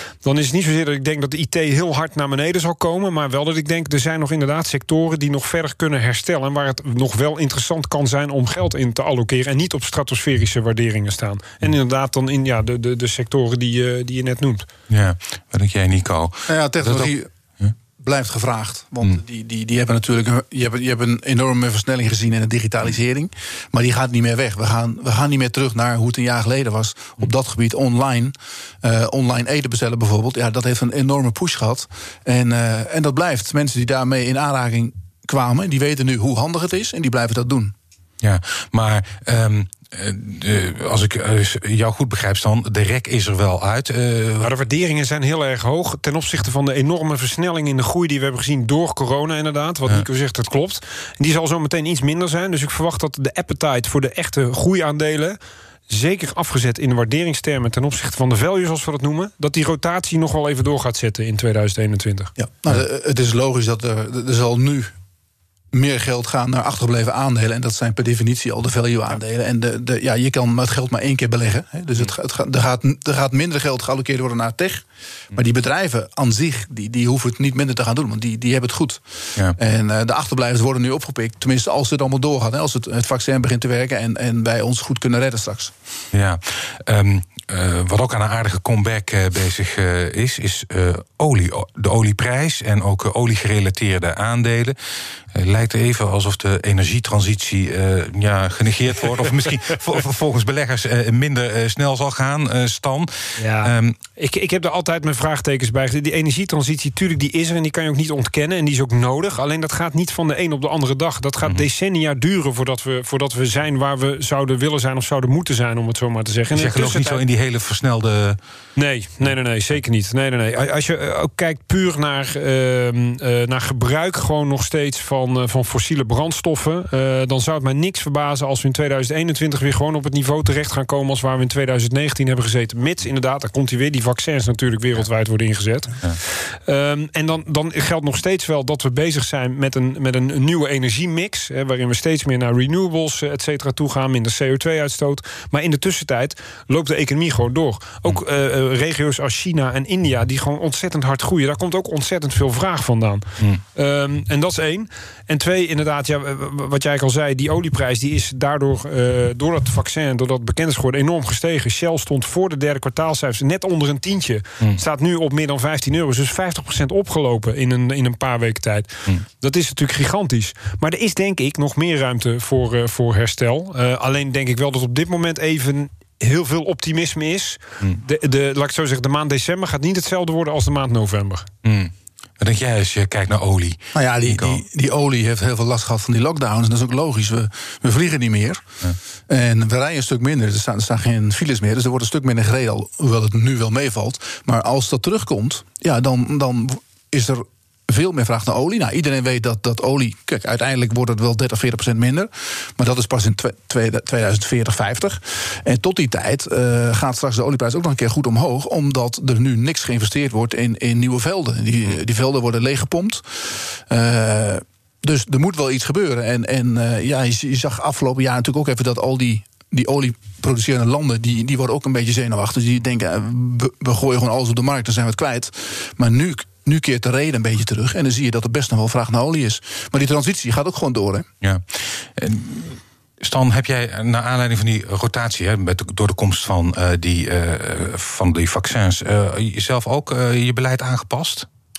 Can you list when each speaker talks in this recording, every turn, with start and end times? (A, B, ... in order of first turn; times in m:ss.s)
0:00.2-0:14.7 A
0:14.9-0:17.7 B
0:16.5-0:17.3 C
0:18.0-0:37.7 C
0:38.2-0:44.5 B
0:44.4-0:55.4 A
0:55.9-1:02.3 A
1:02.4-1:04.9 C
1:05.7-1:19.0 C
1:19.5-1:25.7 C
1:26.1-1:34.8 B
1:35.3-1:44.0 B
1:43.4-1:57.2 A
1:56.5-1:58.4 B
1:58.8-3:01.5 A
3:01.6-3:04.6 B
3:03.9-3:08.6 C
3:09.3-3:51.3 C
3:51.4-4:01.5 B